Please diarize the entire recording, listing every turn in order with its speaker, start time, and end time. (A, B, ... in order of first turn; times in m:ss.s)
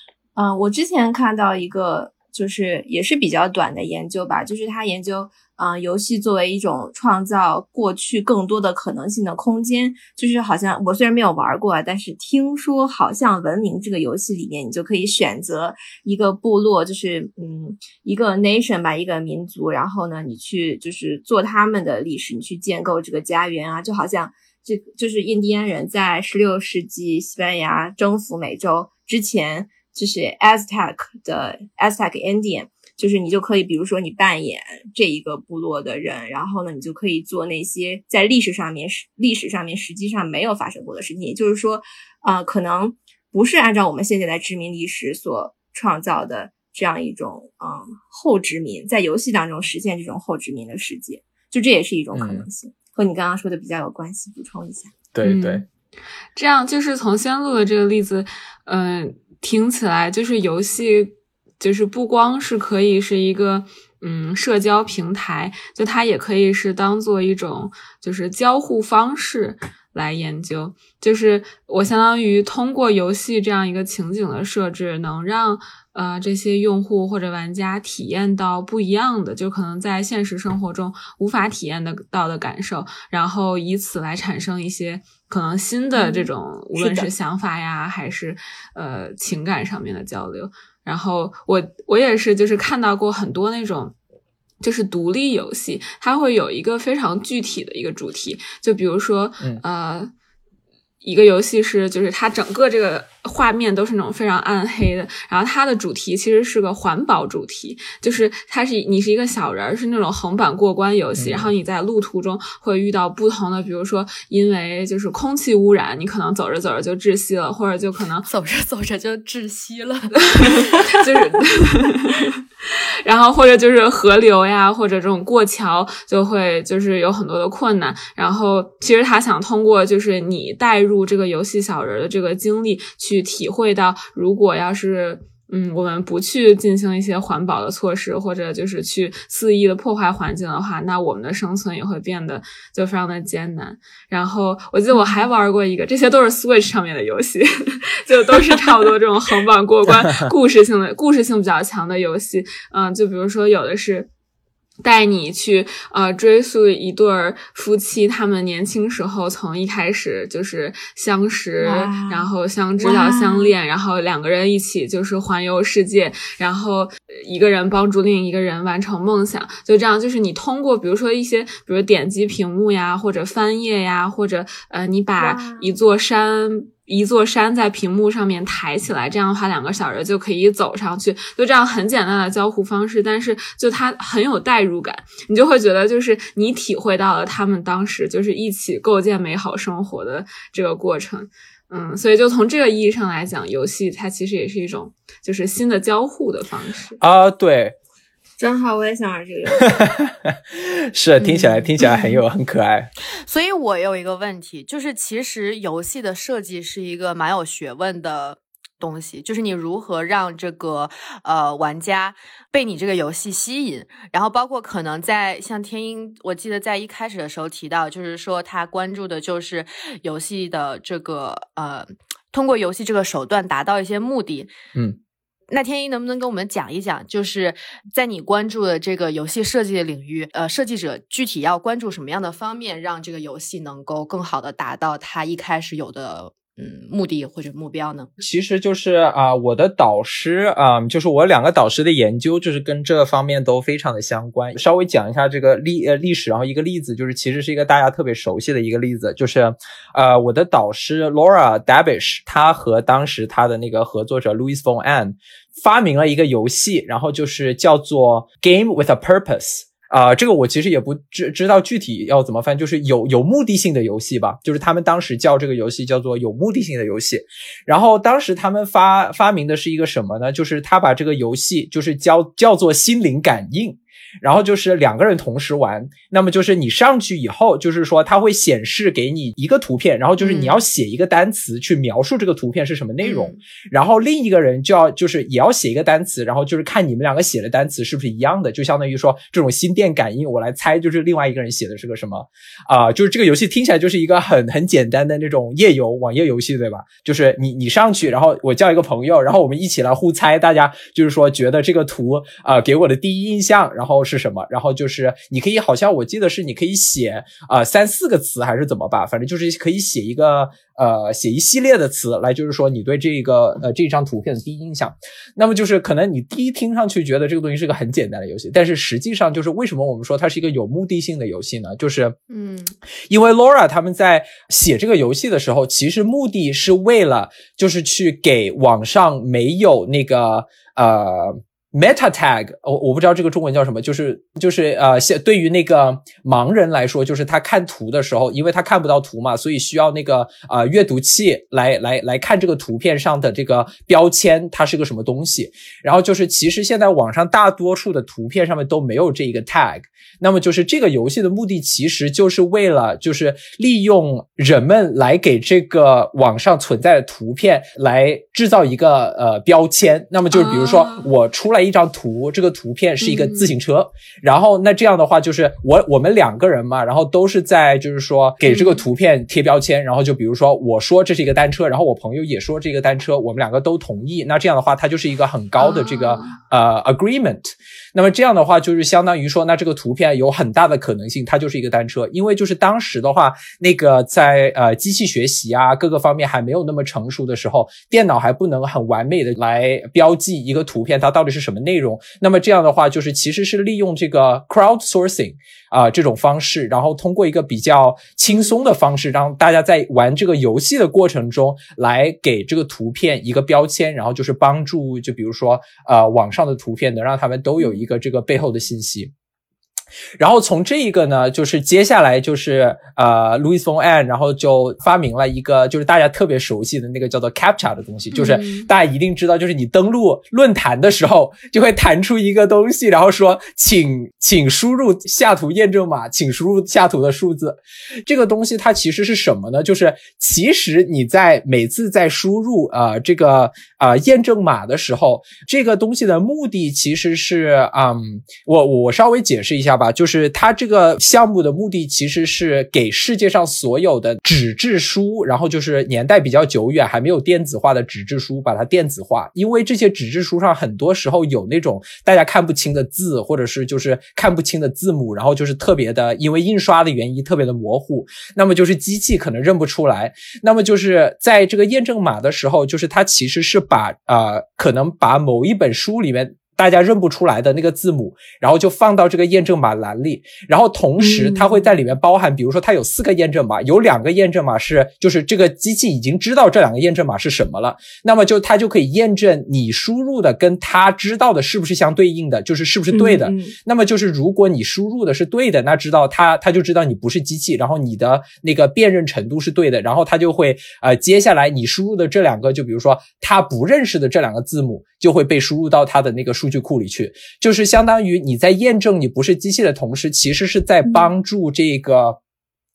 0:00.4-0:55.0 A
0:52.1-0:52.4 B
0:55.1-0:55.6 B
0:55.2-0:55.6 C
0:56.4-1:34.0 C
1:26.0-1:26.3 A
1:26.8-1:27.1 B
1:34.6-1:40.1 C
1:41.0-1:58.3 C
1:51.2-1:51.5 B
1:58.3-2:01.0 D
2:00.2-2:02.3 C
2:03.0-2:34.1 C
2:24.9-2:25.2 A
2:34.8-3:17.0 C
2:41.6-2:43.5 A
2:55.2-2:55.7 A
3:17.0-3:17.8 B
3:18.4-3:19.8 A
3:19.7-3:22.9 B
3:21.2-3:21.7 D
3:23.3-3:44.5 D
3:45.5-3:58.1 D
3:58.2-5:22.2 B
4:40.2-4:40.6 D
4:43.0-4:43.4 D
5:22.3-5:22.7 D
5:23.1-6:49.1 B
6:00.3-6:01.1 C
6:03.0-6:03.5 C
6:08.4-6:08.8 C
6:15.6-6:16.3 C
6:50.2-8:22.2 B
6:58.1-6:58.7 C
8:02.9-8:03.5 A